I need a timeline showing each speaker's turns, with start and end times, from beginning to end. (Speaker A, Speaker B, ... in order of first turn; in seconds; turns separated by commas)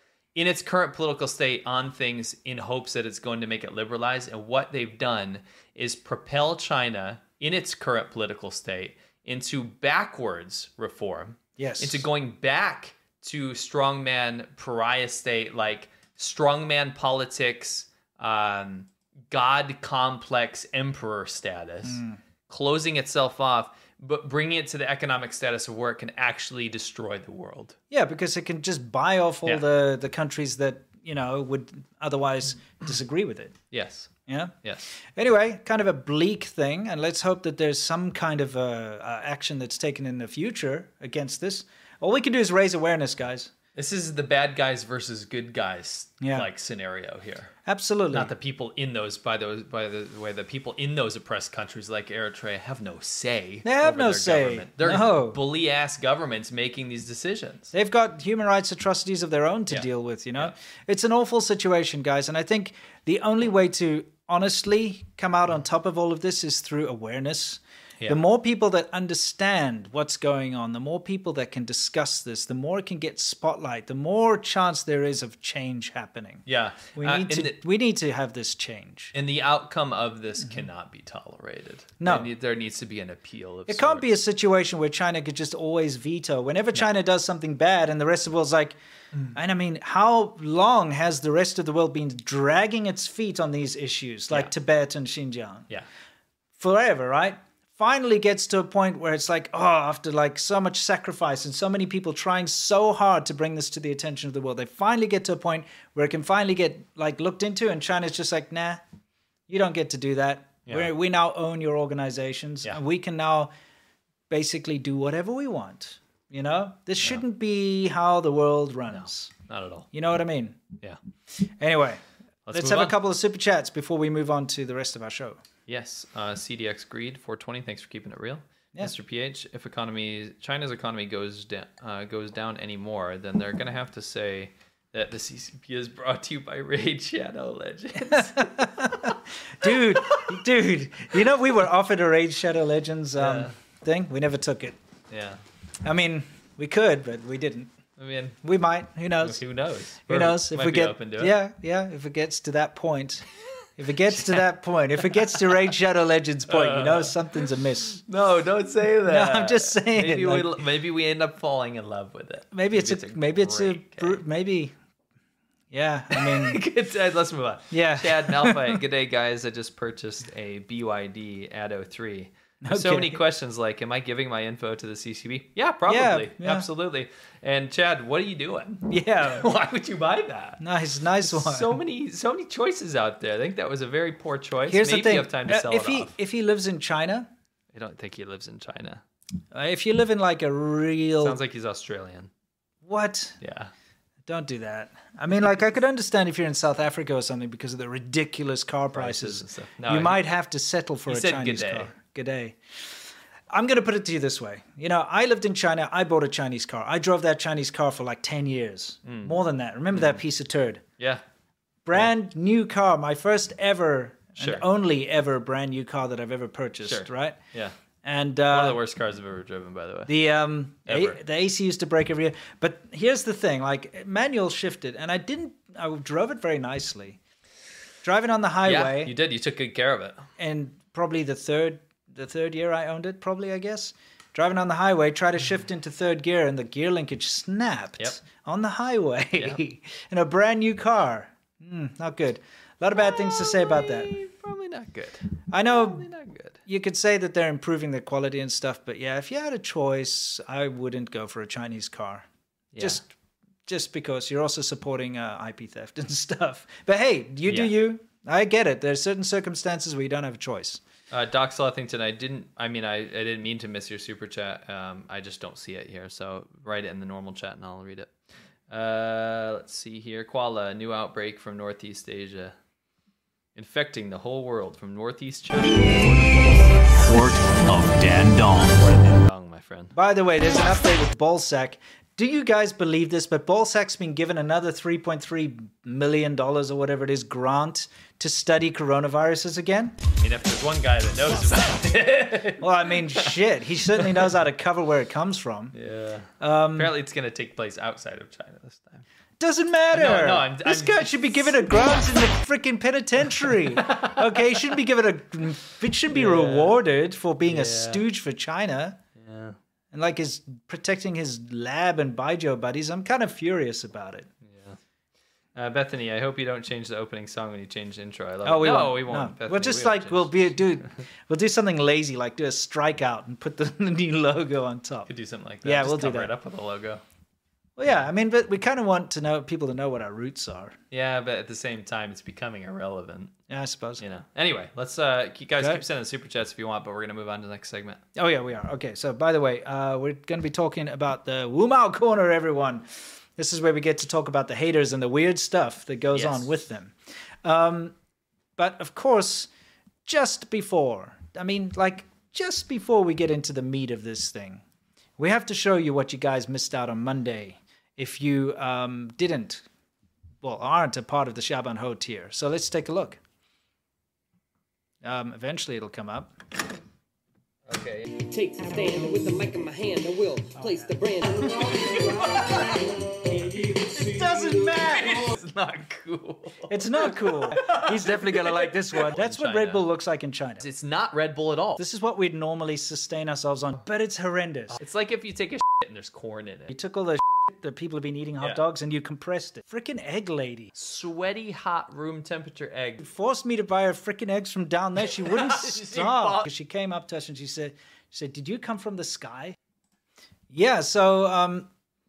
Speaker A: 0.3-27.8, Speaker B: 11.6-12.1, Speaker B: 21.9-22.2, Speaker B: 27.9-33.5, Speaker A: 33.7-34.1, Speaker B: 34.3-34.5, Speaker B: 35.2-43.5, Speaker A: 43.8-47.5, Speaker B: 46.2-46.5, Speaker B: 47.7-48.3, Speaker A: 48.1-57.7, Speaker B: 53.6-55.4, Speaker B: 57.7-79.1, Speaker A: 59.7-60.5, Speaker A: 76.5-77.6, Speaker A: 79.1-84.1, Speaker B: 82.0-82.3, Speaker B: 83.7-88.8, Speaker B: 89.3-95.7, Speaker B: 96.6-108.8, Speaker B: 109.5-113.5, Speaker A: 110.7-110.9, Speaker B: 114.3-119.3, Speaker A: 118.9-119.9, Speaker B: 119.9-120.6, Speaker B: 121.6-125.4, Speaker A: 122.5-123.0, Speaker A: 125.7-140.3, Speaker B: 138.2-144.8, Speaker A: 143.2-143.5, Speaker A: 145.1-145.4, Speaker B: 145.8-147.7, Speaker A: 148.0-148.4, Speaker B: 148.4-149.4, Speaker A: 149.2-151.3, Speaker B: 150.1-153.2, Speaker B: 153.8-158.0, Speaker A: 154.2-154.4, Speaker A: 155.2-155.7, Speaker A: 156.5-157.2, Speaker A: 158.0-164.2, Speaker B: 159.1-160.5, Speaker B: 162.5-164.7, Speaker B: 165.7-166.6, Speaker A: 166.1-180.6, Speaker B: 167.7-168.8, Speaker B: 172.7-173.2, Speaker B: 175.9-176.7, Speaker B: 178.9-179.5, Speaker B: 180.6-181.8, Speaker A: 181.2-186.1, Speaker B: 184.7-187.3, Speaker A: 187.7-189.0, Speaker B: 189.5-191.4, Speaker A: 191.2-192.3, Speaker B: 192.8-193.4, Speaker A: 193.4-193.7, Speaker B: 194.3-202.6, Speaker A: 198.9-200.2, Speaker A: 201.1-201.9, Speaker B: 203.5-210.8, Speaker A: 209.1-209.4, Speaker A: 209.9-210.2, Speaker B: 211.9-217.4, Speaker A: 214.4-214.7, Speaker A: 216.8-217.8, Speaker B: 218.0-218.8, Speaker A: 218.5-220.2, Speaker B: 220.1-227.2, Speaker A: 220.9-221.2, Speaker B: 228.0-229.1, Speaker A: 228.7-230.2, Speaker B: 230.4-244.2, Speaker A: 243.0-246.6, Speaker B: 245.5-246.1, Speaker B: 246.7-252.3, Speaker A: 252.7-253.0, Speaker B: 252.8-253.1, Speaker B: 253.7-260.8, Speaker A: 257.5-257.7, Speaker A: 261.1-268.1, Speaker A: 268.7-272.6, Speaker A: 273.6-279.9, Speaker B: 279.9-290.0, Speaker A: 290.2-294.3, Speaker B: 292.6-295.8, Speaker A: 295.7-299.1, Speaker B: 296.4-296.9, Speaker B: 299.4-309.0, Speaker A: 299.9-301.7, Speaker A: 303.7-304.6, Speaker A: 306.1-306.8, Speaker A: 307.5-308.0, Speaker A: 309.2-309.6, Speaker B: 309.9-314.3, Speaker A: 314.5-314.8, Speaker A: 315.6-320.6, Speaker B: 318.4-325.1, Speaker A: 325.1-327.0, Speaker B: 325.6-326.3, Speaker B: 327.8-330.8, Speaker A: 330.9-333.4, Speaker B: 333.5-334.0, Speaker A: 334.0-338.0, Speaker B: 338.2-342.9, Speaker B: 343.4-347.9, Speaker A: 346.1-346.5, Speaker B: 348.6-349.5, Speaker B: 350.1-354.6, Speaker B: 355.2-359.6, Speaker B: 360.4-363.2, Speaker B: 365.0-366.3, Speaker A: 367.7-368.1, Speaker C: 368.1-374.3, Speaker B: 370.6-370.9, Speaker B: 374.0-375.3, Speaker A: 374.6-379.8, Speaker B: 376.7-380.7, Speaker A: 380.6-381.8, Speaker B: 381.8-384.8, Speaker A: 384.7-386.7, Speaker B: 386.7-390.7, Speaker A: 390.8-393.0, Speaker B: 393.0-399.6, Speaker A: 395.1-396.5, Speaker B: 400.5-401.7